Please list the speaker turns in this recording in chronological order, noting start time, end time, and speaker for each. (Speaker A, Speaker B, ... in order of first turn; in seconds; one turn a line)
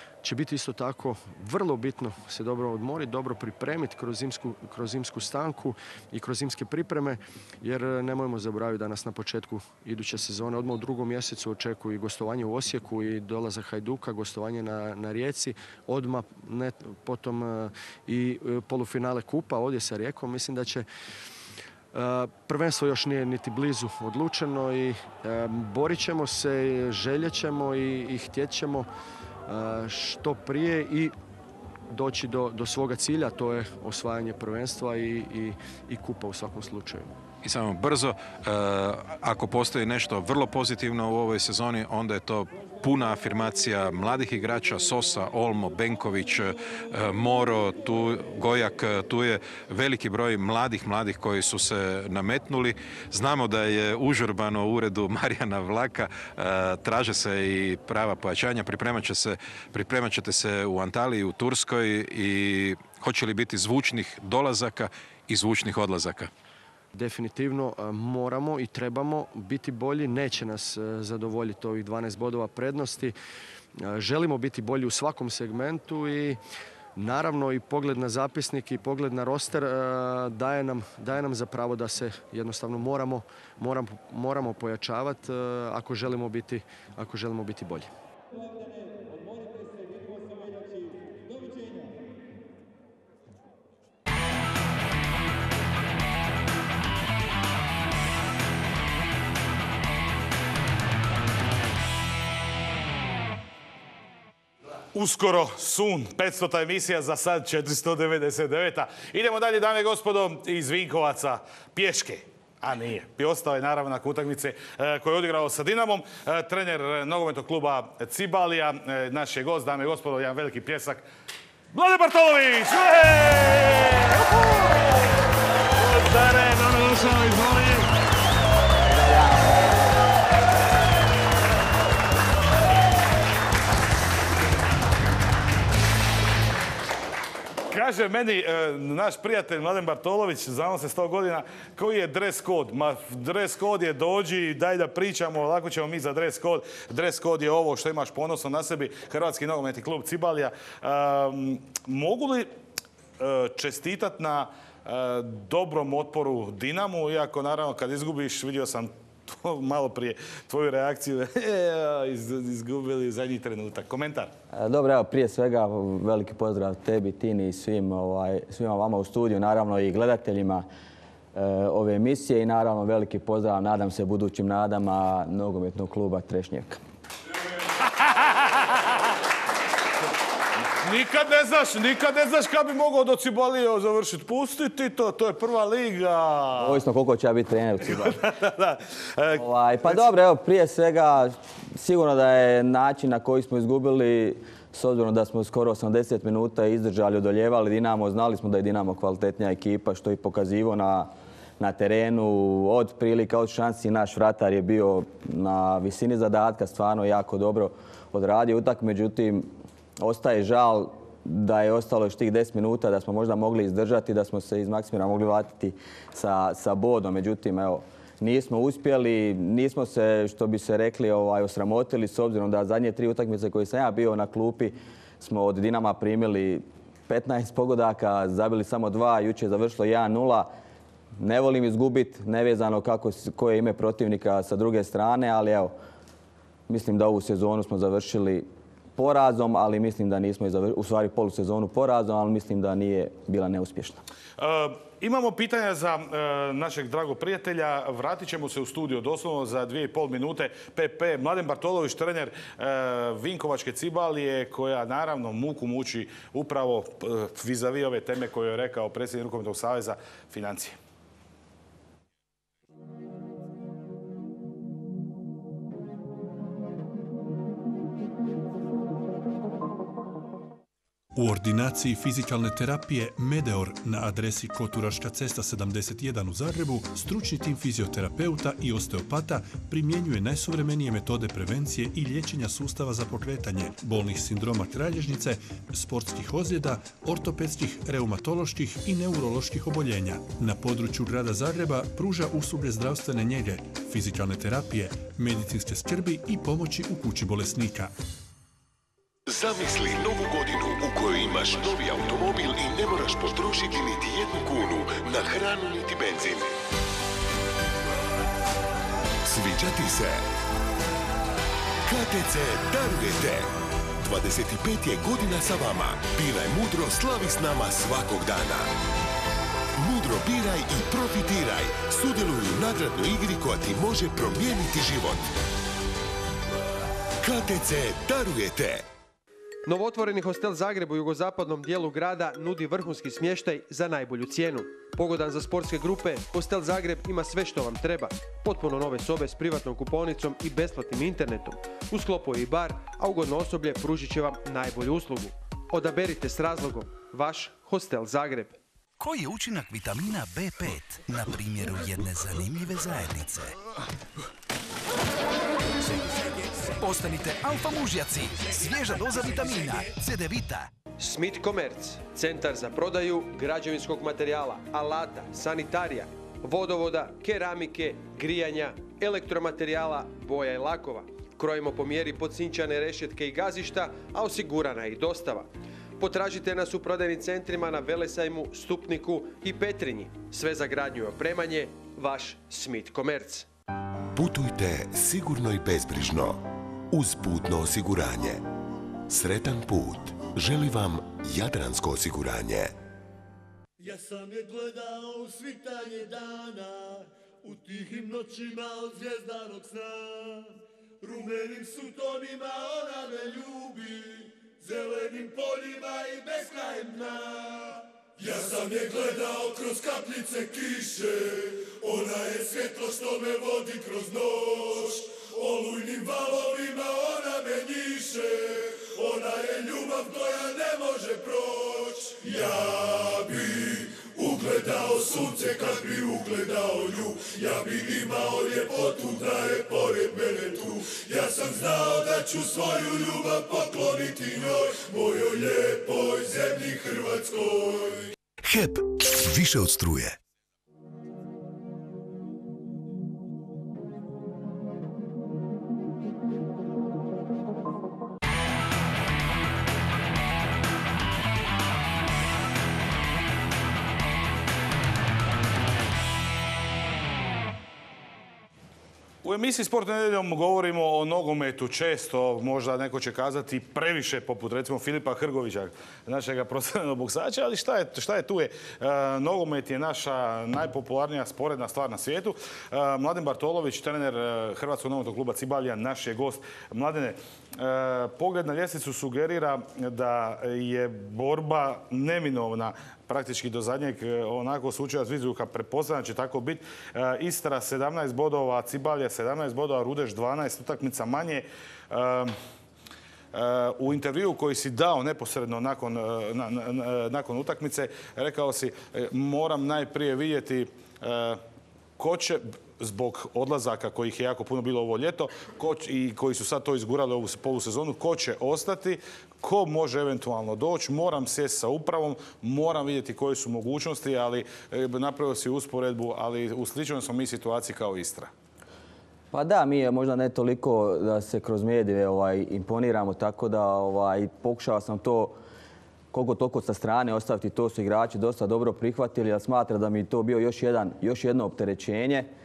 Speaker A: 0.2-20.9
Speaker A: 21.9-28.9
Speaker A: 29.5-31.1
Speaker A: 31.9-37.1
Speaker B: 37.4-66.3
Speaker A: 66.9-73.1
Speaker A: 73.8-76.4
Speaker A: 77.0-87.9
Speaker C: 104.9-121.0
Speaker C: 121.7-124.8
Speaker C: 125.8-127.9
Speaker C: 137.7-152.5
Speaker C: 153.2-164.3
Speaker D: 164.5-170.7
Speaker D: 171.3-176.8
Speaker C: 177.8-179.1
Speaker C: 180.8-186.8
Speaker D: 186.6-188.2
Speaker C: 187.8-190.1
Speaker D: 189.3-209.5
Speaker D: 210.0-230.5
Speaker D: 231.2-235.7
Speaker D: 236.7-244.0
Speaker C: 244.4-260.8
Speaker E: 271.1-297.9
Speaker F: 299.3-306.5
Speaker F: 309.2-310.3
Speaker F: 311.9-318.7
Speaker F: 319.8-325.3
Speaker F: 327.2-328.9
Speaker G: 329.7-348.6
Speaker H: 349.0-353.5
Speaker H: 355.8-360.7
Speaker G: 361.0-383.5
Speaker F: 384.1-388.4
Speaker F: 389.1-392.7
Speaker I: 393.8-438.1
Speaker F: 438.5-440.1
Speaker C: 459.2-492.4
Speaker C: 493.3-501.4
Speaker C: 502.0-518.3
Speaker D: 519.3-525.4
Speaker D: 526.1-532.3